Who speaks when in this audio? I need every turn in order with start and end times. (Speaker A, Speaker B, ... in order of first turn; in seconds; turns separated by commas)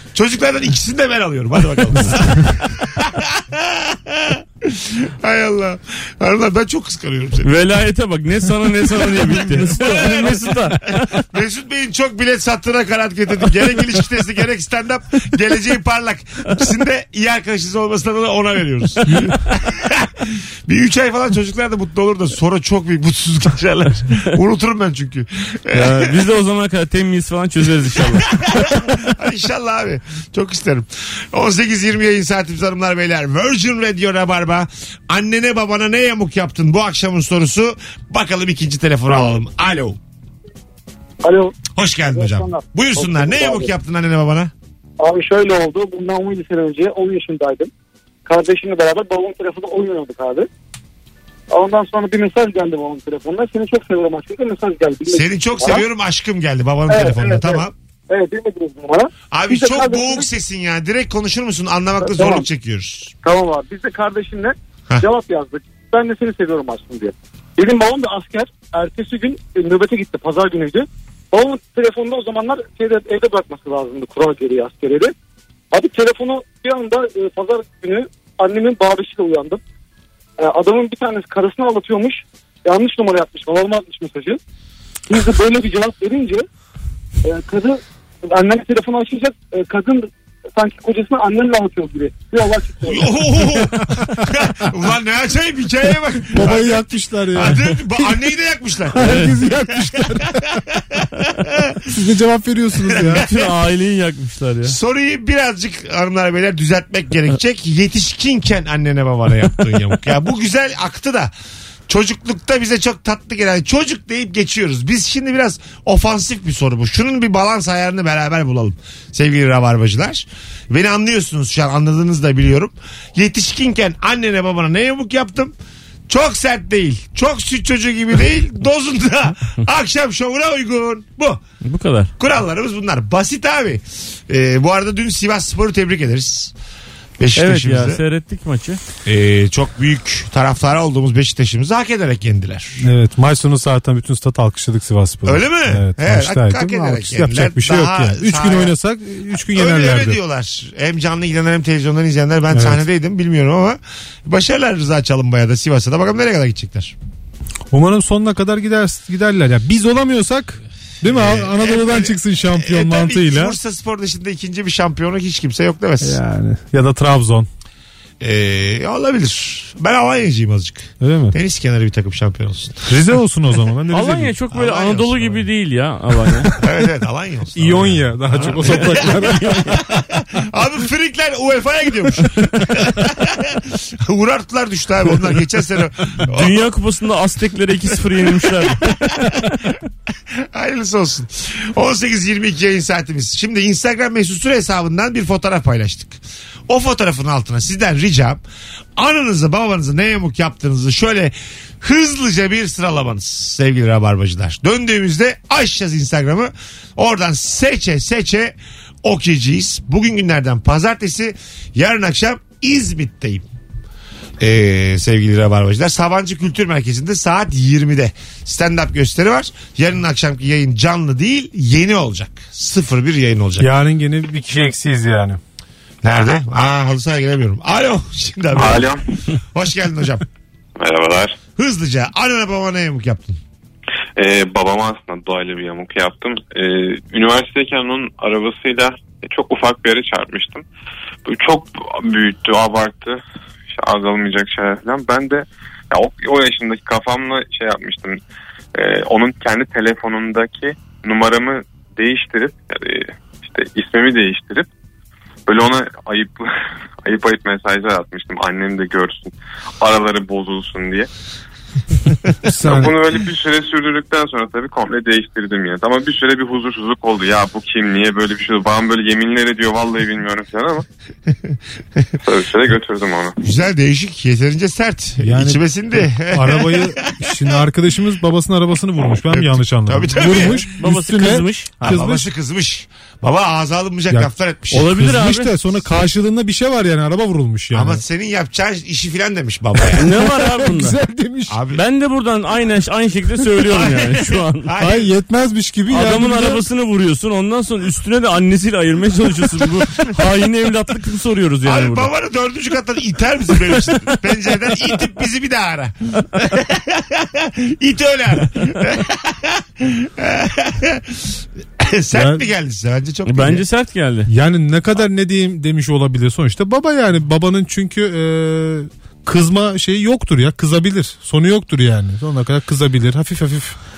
Speaker A: 0.1-7.5, Speaker B: 1.9-2.2, Speaker B: 7.4-11.2, Speaker A: 8.9-26.2, Speaker B: 25.7-28.9, Speaker A: 28.1-40.0, Speaker C: 41.2-41.6, Speaker A: 41.7-44.5, Speaker C: 42.1-43.7, Speaker C: 45.0-47.7, Speaker C: 48.2-50.5, Speaker C: 51.5-55.9, Speaker A: 55.1-57.7, Speaker C: 56.9-60.3, Speaker A: 59.3-63.1, Speaker C: 62.0-62.5, Speaker C: 63.2-75.1, Speaker C: 75.7-79.6, Speaker C: 80.4-84.4, Speaker C: 85.1-86.4, Speaker C: 87.2-93.1, Speaker A: 92.8-101.9, Speaker D: 96.3-98.2, Speaker D: 98.9-100.6, Speaker B: 99.0-99.4, Speaker D: 101.8-103.2, Speaker A: 102.8-103.5, Speaker B: 103.1-104.8, Speaker A: 104.6-111.3, Speaker A: 111.9-125.5, Speaker A: 126.1-131.4, Speaker B: 131.6-132.1, Speaker A: 132.2-136.5, Speaker A: 137.2-138.0, Speaker B: 137.3-138.8, Speaker A: 139.0-142.9, Speaker D: 142.8-150.2, Speaker A: 145.2-148.7, Speaker A: 149.4-156.9, Speaker D: 152.5-152.8, Speaker D: 157.7-163.6, Speaker A: 161.0-166.2, Speaker D: 166.0-167.5, Speaker A: 168.2-172.9, Speaker D: 171.0-171.3, Speaker D: 172.9-174.3, Speaker B: 173.9-176.6, Speaker A: 174.5-175.4, Speaker A: 176.6-186.7, Speaker D: 177.5-179.8, Speaker B: 178.4-179.8, Speaker B: 186.3-189.4, Speaker A: 188.6-189.5, Speaker A: 190.4-198.4, Speaker A: 199.0-213.4, Speaker A: 214.4-223.7, Speaker D: 223.6-225.4, Speaker A: 226.0-228.9, Speaker E: 228.5-229.0, Speaker A: 229.5-230.2, Speaker E: 230.8-231.4, Speaker A: 231.5-233.4, Speaker E: 234.2-240.6, Speaker E: 241.2-243.2, Speaker E: 243.7-248.2, Speaker E: 248.7-254.7, Speaker E: 255.5-256.4, Speaker E: 257.0-261.1, Speaker D: 262.4-263.0, Speaker E: 262.6-270.8, Speaker A: 271.5-272.1, Speaker E: 272.2-273.3, Speaker A: 273.4-277.1, Speaker D: 275.2-282.3, Speaker A: 279.2-280.7, Speaker B: 280.3-281.8, Speaker A: 281.8-284.9, Speaker D: 284.1-288.0, Speaker B: 284.7-285.5, Speaker A: 287.7-290.1, Speaker D: 289.8-291.6, Speaker B: 289.9-291.0, Speaker A: 291.5-291.8, Speaker B: 291.7-294.7, Speaker A: 293.6-295.1, Speaker D: 294.8-296.6, Speaker B: 295.9-302.1, Speaker A: 301.6-313.6, Speaker D: 312.1-312.4, Speaker B: 313.2-314.3, Speaker D: 314.3-323.8